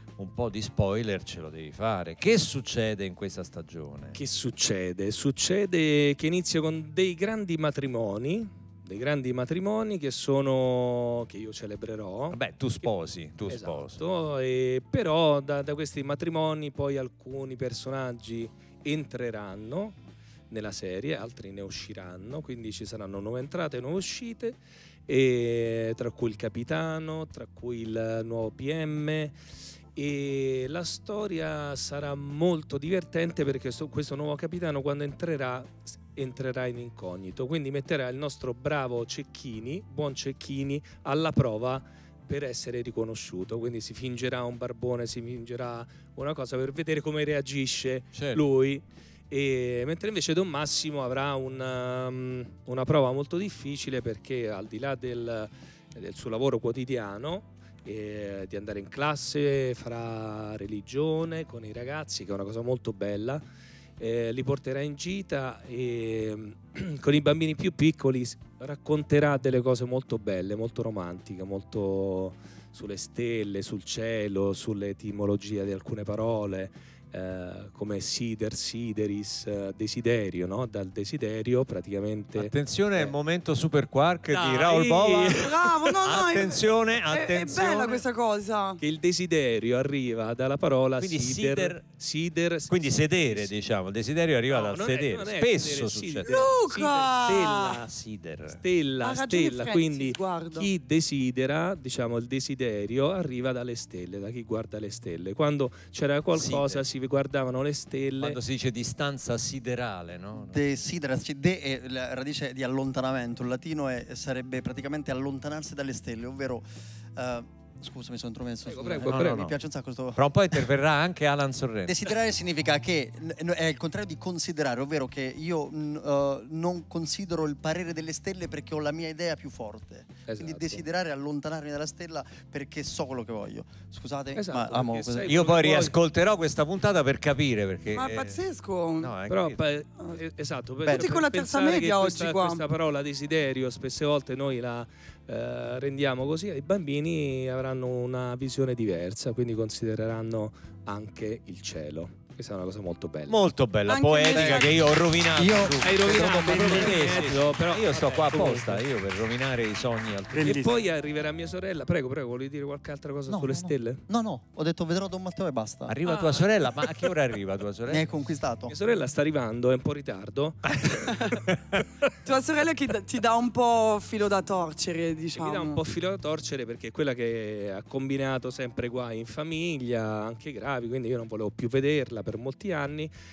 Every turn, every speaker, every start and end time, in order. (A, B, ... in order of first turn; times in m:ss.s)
0:00.2-0:04.2 A
0:04.1-0:12.4 B
0:12.3-0:14.0 A
0:13.5-0:20.0 B
0:20.5-0:29.4 B
0:29.9-1:03.4 B
0:48.1-0:48.4 A
1:04.0-1:23.2 B
1:22.3-1:28.0 A
1:24.3-1:25.6 B
1:25.3-1:28.8 C
1:28.8-1:33.5 B
1:31.0-1:31.8 A
1:32.7-1:36.4 A
1:34.5-1:37.9 B
1:36.2-1:37.7 C
1:37.6-1:38.6 A
1:38.5-1:48.4 B
1:39.0-1:40.7 C
1:46.3-1:46.8 A
1:48.2-1:50.6 A
1:50.4-2:00.7 D
1:58.6-1:59.4 B
1:59.0-1:59.6 A
2:00.1-2:02.1 A
2:01.8-2:15.4 D
2:10.2-2:10.8 B
2:14.3-2:16.0 B
2:15.2-2:19.6 A
2:17.9-2:19.1 C
2:19.3-2:33.4 B
2:20.8-2:22.6 C
2:33.3-2:40.7 A
2:33.8-2:34.9 C
2:34.3-2:34.8 D
2:35.3-2:37.3 D
2:35.8-2:38.8 B
2:40.3-2:40.7 D
2:40.4-2:44.0 B
2:43.3-2:46.0 D
2:45.9-2:48.1 A
2:46.1-2:46.5 C
2:47.9-2:48.7 D
2:48.7-2:51.4 B
2:51.0-2:51.3 C
2:52.2-2:55.8 C
2:55.4-3:03.1 B